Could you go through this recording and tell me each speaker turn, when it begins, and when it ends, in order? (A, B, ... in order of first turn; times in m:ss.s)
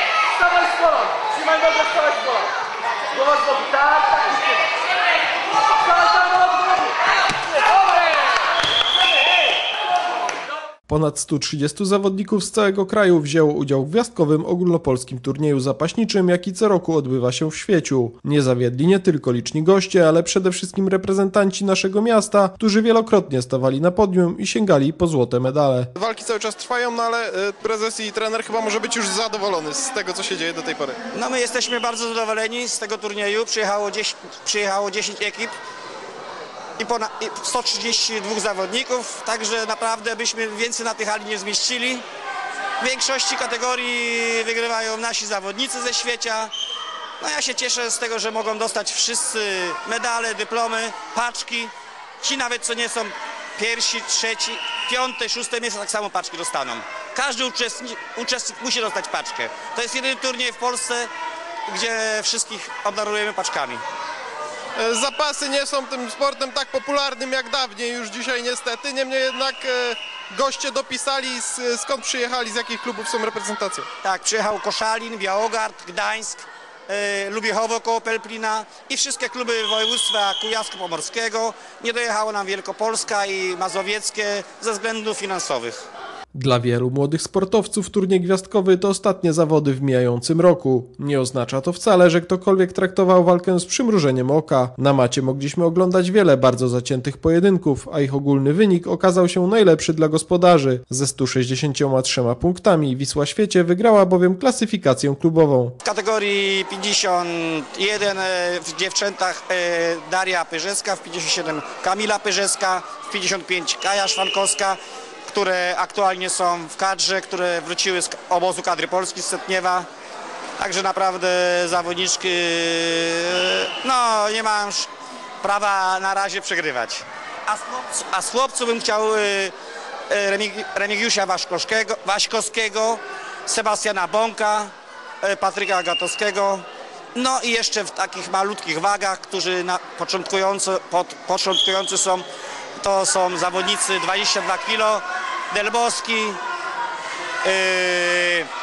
0:00.4-0:02.5 A
0:03.2-0:04.5 A
0:05.9-0:06.9 A
0:10.9-0:25.9 B
0:26.0-0:31.0 C
0:31.1-0:35.6 D
0:36.8-0:42.0 D
0:42.8-0:46.5 D
0:47.2-1:01.1 D
1:01.7-1:03.8 D
1:04.8-1:13.9 C
1:14.0-1:25.9 D
1:26.3-1:45.8 B
1:45.8-1:59.9 D
2:00.6-2:04.9 D
2:05.4-2:09.5 D
2:10.1-2:22.3 D
2:22.8-2:26.4 D
2:27.4-2:28.5 D